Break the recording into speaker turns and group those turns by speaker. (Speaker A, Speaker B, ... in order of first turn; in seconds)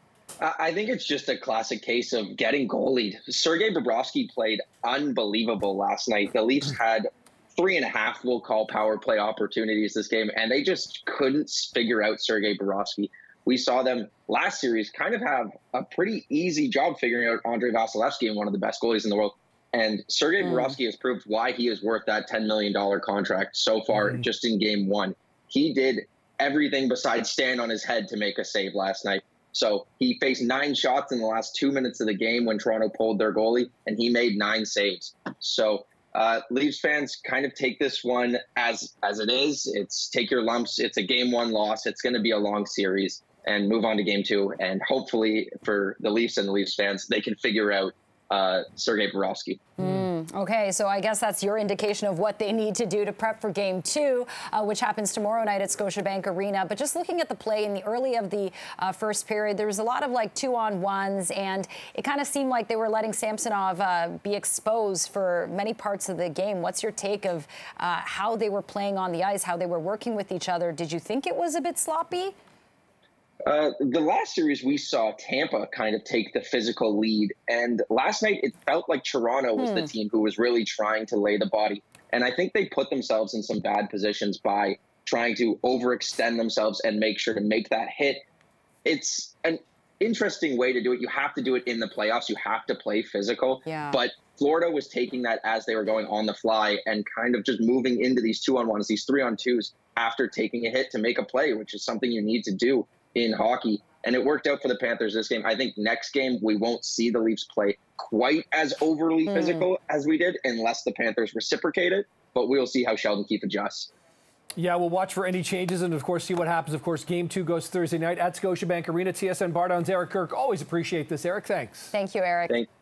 Speaker A: 0.4-49.6, 73.5-88.2, 88.8-113.9
Speaker B: 23.9-24.2, 114.6-121.9
Speaker C: 49.8-72.3, 79.6-79.9, 93.7-94.0, 109.3-109.7, 121.9-122.6